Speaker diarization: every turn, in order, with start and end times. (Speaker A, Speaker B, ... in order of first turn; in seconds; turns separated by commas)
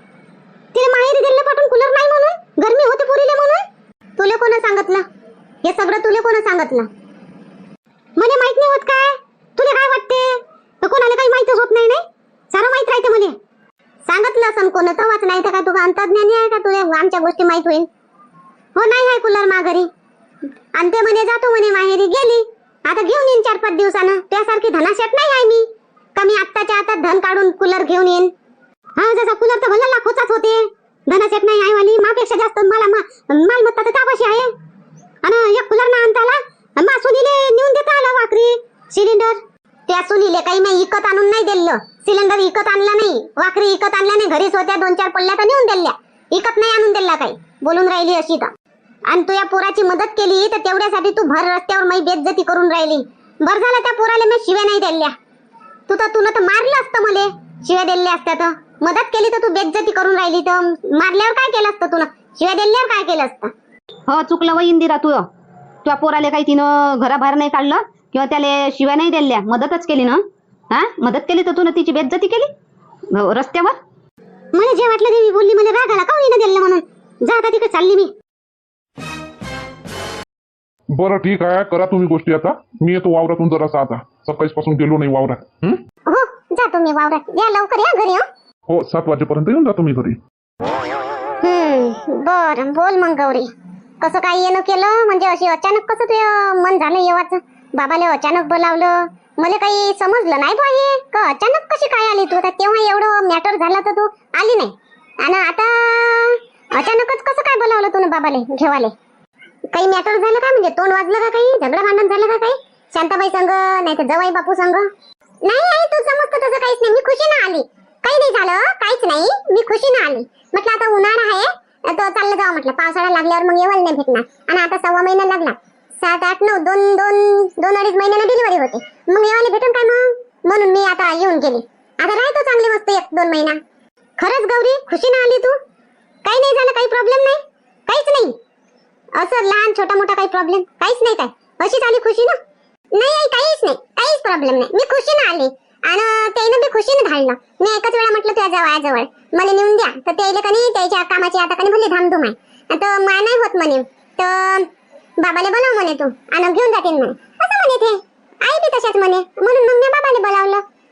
Speaker A: 0.7-3.6, Speaker A: 4.2-5.0, Speaker A: 5.6-6.9, Speaker A: 8.2-13.3, Speaker A: 14.1-17.9, Speaker A: 18.8-19.9, Speaker A: 20.8-28.3, Speaker A: 29.0-34.5, Speaker A: 35.2-48.5, Speaker A: 49.1-55.1, Speaker A: 55.9-63.5, Speaker B: 64.1-65.3, Speaker B: 65.8-72.5, Speaker B: 73.1-73.8, Speaker A: 74.5-78.1, Speaker C: 81.0-85.8, Speaker A: 86.1-88.3, Speaker C: 88.7-90.2, Speaker A: 91.4-108.9, Speaker A: 109.7-114.9, Speaker A: 115.5-133.6, Speaker A: 134.2-135.6, Speaker A: 136.2-138.4, Speaker A: 139.2-142.4, Speaker A: 142.9-160.6